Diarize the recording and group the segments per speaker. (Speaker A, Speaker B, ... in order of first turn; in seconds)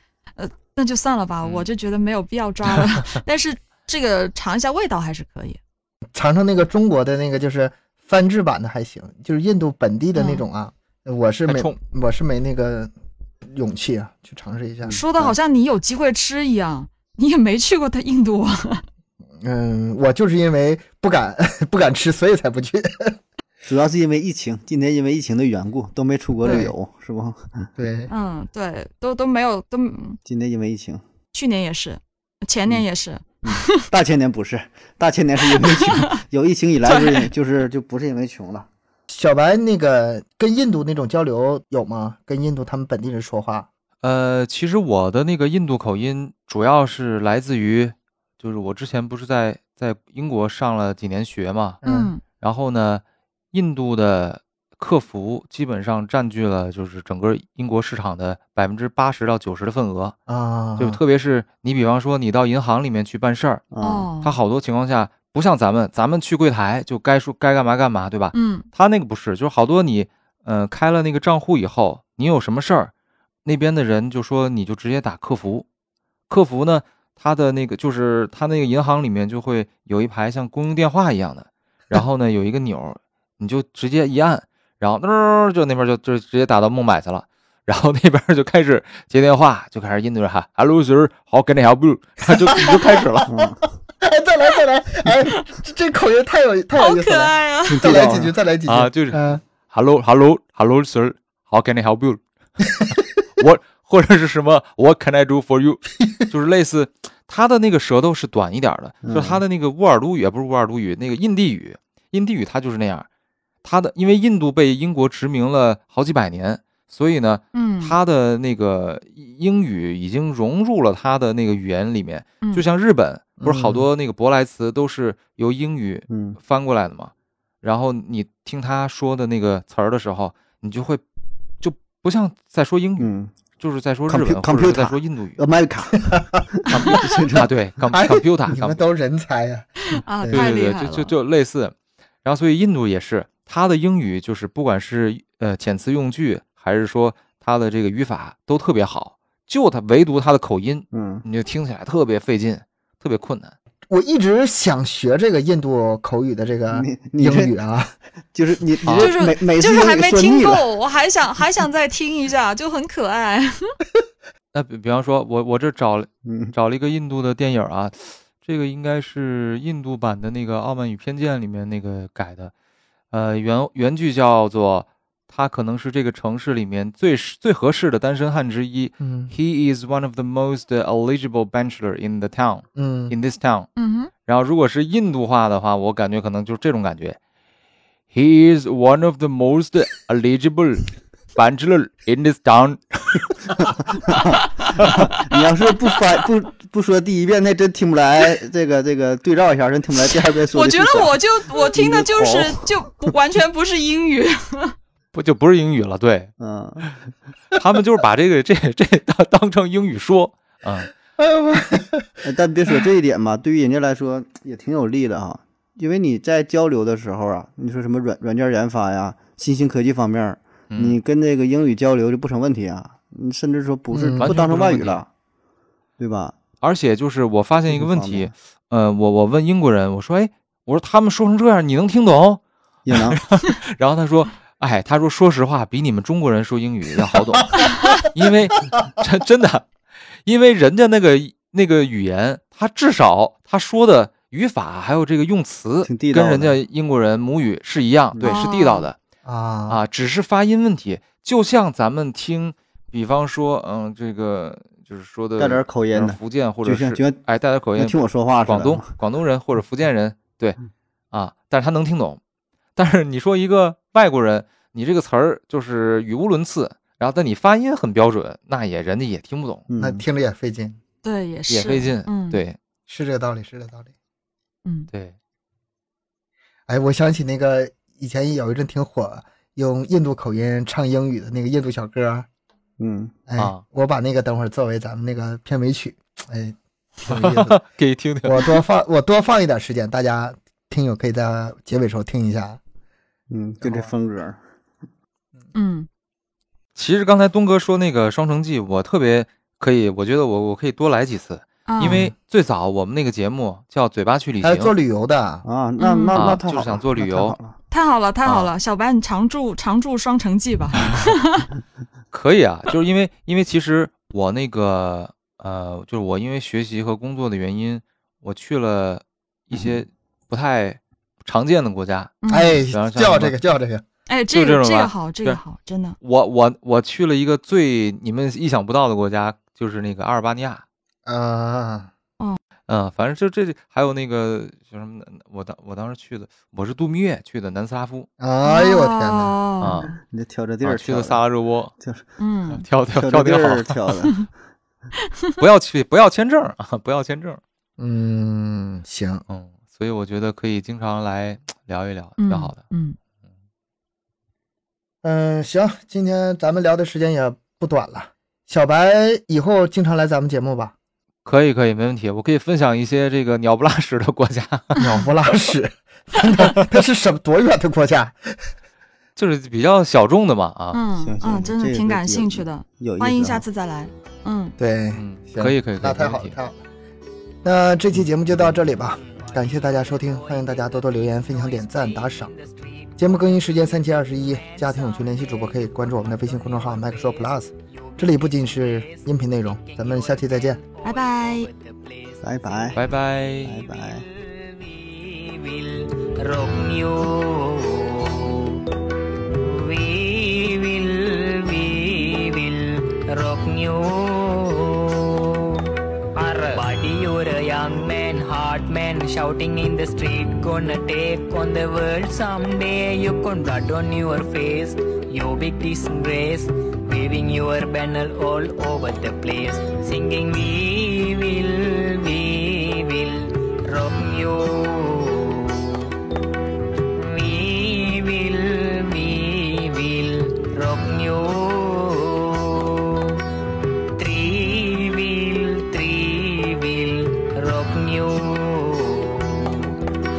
Speaker A: 0.4-5.6, 10.2-10.4, 14.9-18.8, 26.4-26.7, 28.1-30.2, 31.3-33.9, 35.6-36.0, 36.9-37.2, 51.8-52.2, 63.8-64.3, 68.3-68.7, 96.8-98.0, 117.5-118.0, 139.9-141.1, 158.9-163.8, 183.8-184.1, 200.0-204.8, 248.2-248.9, 271.0-272.4, 274.6-274.9, 295.5-295.9, 301.7-302.1, 305.8-306.3, 307.7-311.5, 322.2-322.6, 324.1-326.0, 338.4-339.8, 342.2-342.6, 345.0-345.3, 352.2-353.0, 370.7-374.6, 390.8-391.5
Speaker B: 1.4-1.7, 11.5-11.8, 44.0-51.8, 52.4-60.2, 60.8-63.6, 64.2-72.9, 73.5-75.7, 76.3-93.3, 98.7-102.2, 103.3-113.1, 113.6-131.0, 131.6-135.4, 136.7-138.8, 140.3-153.6, 158.8-159.1, 164.5-172.5, 173.1-183.7, 184.2-187.2, 188.1-193.4, 205.1-206.9, 207.5-210.9, 220.7-221.0, 224.2-225.0, 226.6-239.7, 240.2-249.0, 249.7-260.6, 261.1-262.2, 262.8-269.6, 271.5-272.6, 283.4-283.6, 287.1-288.6, 296.8-304.7, 306.1-307.4, 312.1-323.4, 324.3-325.4, 326.0-330.6, 332.7-338.1, 339.6-339.9, 340.6-341.7, 342.6-343.9, 345.4-347.4, 349.3-352.6, 361.2-364.9, 369.2-370.8, 374.9-376.4, 392.8-393.6
Speaker C: 6.1-12.9, 13.4-15.3, 19.4-23.2, 26.4-26.7, 27.8-28.1, 39.1-43.7, 51.8-52.1, 60.3-61.0, 92.3-99.4, 123.4-123.9, 137.9-139.7, 140.2-140.5, 153.9-157.9, 179.0-179.3, 182.8-183.2, 211.2-212.2, 223.9-224.3, 249.2-249.8, 269.8-270.8, 272.9-273.9, 276.7-282.3, 283.3-287.6, 288.2-292.6, 293.6-293.9, 304.4-305.4, 322.3-323.8, 331.1-331.9, 338.2-339.4, 347.8-349.2, 355.0-360.8, 364.8-368.4, 374.6-376.6, 377.4-382.3, 383.0-390.6
Speaker D: 23.6-27.7, 30.2-31.0, 33.4-38.7, 63.7-64.1, 93.3-93.6, 97.7-98.3, 109.0-109.4, 126.1-126.4, 133.0-133.3, 134.1-137.5, 150.9-151.3, 156.7-157.6, 158.3-160.7, 166.3-166.6, 193.6-202.8, 206.4-206.9, 212.2-225.1, 226.0-226.3, 227.7-228.3, 232.9-233.2, 245.8-246.6, 248.1-248.4, 255.4-257.2, 257.8-258.9, 269.7-270.0, 282.8-283.1, 293.3-294.4, 305.4-307.6, 339.9-341.2, 341.8-342.1, 342.9-344.3, 371.0-373.4, 392.2-392.8, 393.4-394.1
Speaker E: 378.8-383.5, 384.1-392.9, 393.6-398.6, 399.3-425.9, 426.9-433.2, 434.0-439.8